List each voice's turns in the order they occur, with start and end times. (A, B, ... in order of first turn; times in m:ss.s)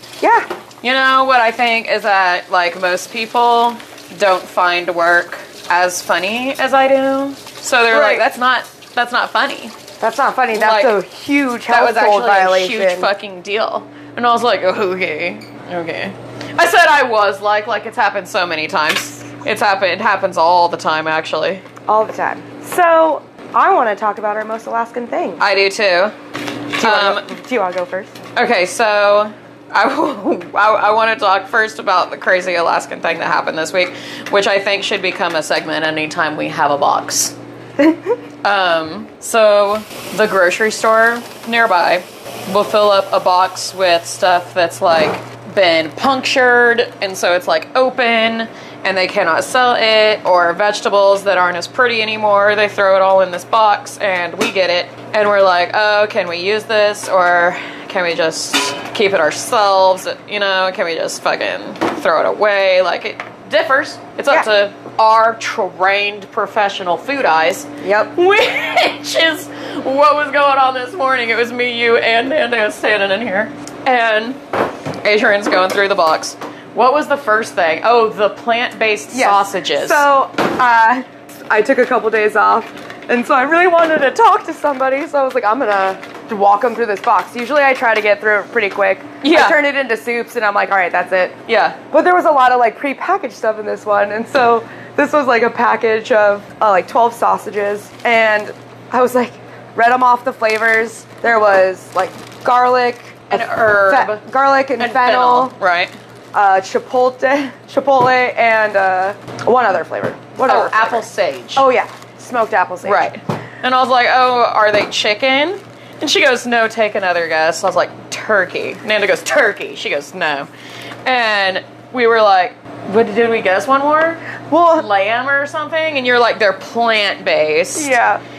0:00.2-0:00.5 A
0:00.8-0:09.8 B
0:07.9-0:08.2 A
0:10.0-0:13.1 A
0:10.5-0:11.0 B
0:11.7-0:21.6 B
0:21.9-0:25.4 A
0:25.4-0:26.2 B
0:26.8-0:27.3 B
0:26.8-0:28.1 A
0:28.4-0:37.4 B
0:38.4-1:14.4 B
1:07.8-1:08.1 A
1:15.0-1:20.0 B
1:19.1-1:31.4 A
1:29.2-1:29.6 B
1:31.5-1:31.8 B
1:31.9-1:45.6 A
1:43.3-1:44.2 B
1:44.8-1:45.9 B
1:46.3-1:53.1 A
1:50.4-1:51.7 B
1:52.8-2:00.5 B
2:01.1-2:07.9 B
2:04.5-2:04.9 A
2:07.8-2:08.2 A